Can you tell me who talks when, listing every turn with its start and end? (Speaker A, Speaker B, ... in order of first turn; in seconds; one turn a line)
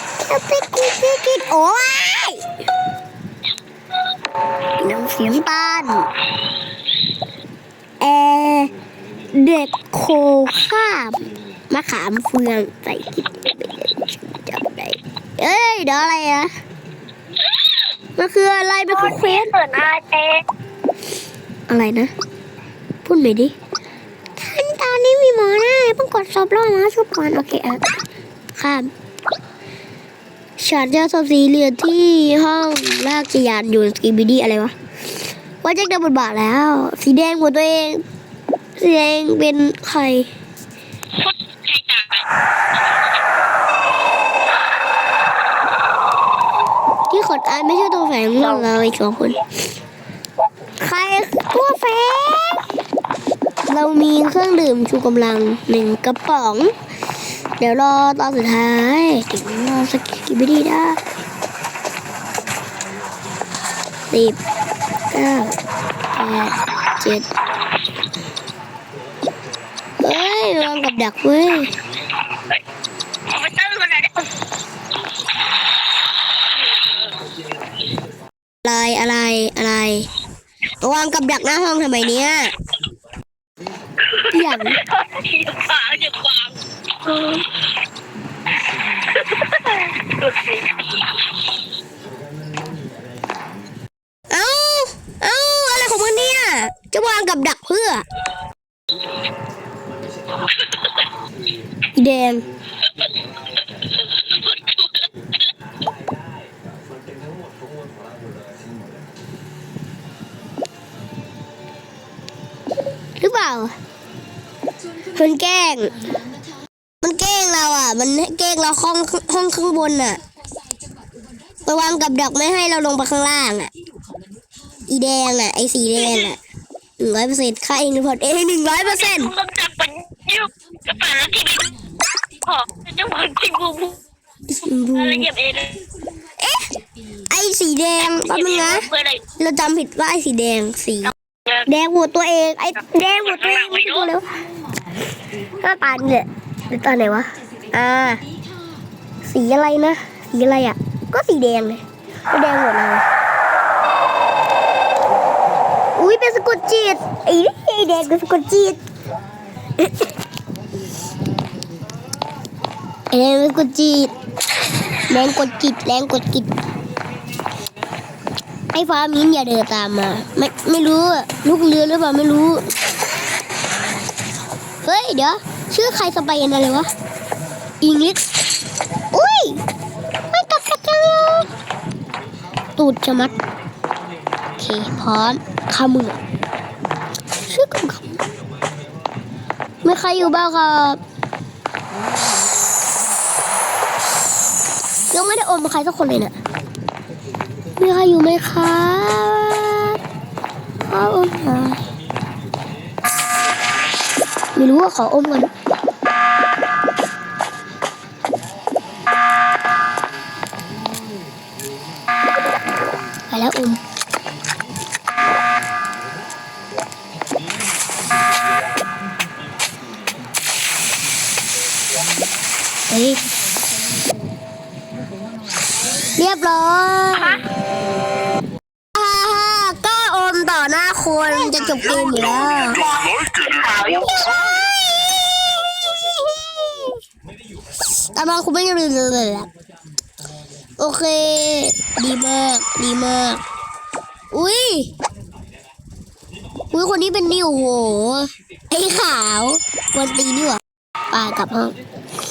Speaker A: 0.3-2.5
Speaker A: 4.8-6.1
Speaker A: 8.0-8.7
Speaker A: 9.3-16.5
Speaker A: 18.2-19.5
Speaker B: 19.0-20.4
Speaker A: 21.7-22.1
Speaker A: 23.0-23.5
Speaker A: 24.4-27.8
Speaker A: 28.6-28.9
Speaker A: 30.6-34.7
Speaker A: 35.6-38.0
Speaker A: 38.8-40.3
Speaker B: 41.2-42.3
Speaker A: 47.1-49.4
Speaker A: 50.8-52.6
Speaker A: 53.7-56.7
Speaker A: 57.6-61.0
Speaker A: 64.1-64.4
Speaker A: 65.1-65.5
Speaker A: 66.2-67.3
Speaker A: 70.0-71.7
Speaker B: 73.3-74.3
Speaker A: 78.6-80.1
Speaker A: 80.8-82.5
Speaker B: 84.2-87.4
Speaker A: 84.3-84.8
Speaker B: 89.1-90.7
Speaker A: 94.3-98.0
Speaker A: 102.0-102.5
Speaker B: 104.3-104.8
Speaker A: 113.2-113.8
Speaker A: 115.1-116.0
Speaker A: 117.0-120.2
Speaker A: 121.7-123.7
Speaker A: 124.9-126.4
Speaker A: 127.0-129.3
Speaker B: 129.0-134.0
Speaker A: 134.5-135.3
Speaker B: 135.0-135.9
Speaker A: 136.4-136.7
Speaker A: 137.2-144.4
Speaker B: 138.2-139.2
Speaker B: 143.3-143.8
Speaker A: 145.5-148.2
Speaker A: 149.2-153.1
Speaker A: 155.9-158.8
Speaker A: 159.8-160.1
Speaker A: 163.1-164.2
Speaker A: 165.1-166.5
Speaker A: 168.7-172.7
Speaker A: 174.8-176.9
Speaker A: 177.8-178.2
Speaker A: 179.1-179.6
Speaker A: 180.3-181.5
Speaker A: 182.8-183.3
Speaker A: 184.6-186.2
Speaker A: 187.5-188.1
Speaker A: 189.8-191.0
Speaker A: 195.1-196.3
Speaker A: 197.8-200.0
Speaker A: 200.9-201.8
Speaker A: 204.6-205.5
Speaker A: 213.3-213.8
Speaker A: 222.9-223.2
Speaker A: 226.1-227.5
Speaker A: 228.9-232.9
Speaker A: 233.8-237.0
Speaker A: 238.1-239.5
Speaker A: 240.8-243.4
Speaker A: 244.3-244.9
Speaker A: 246.7-251.8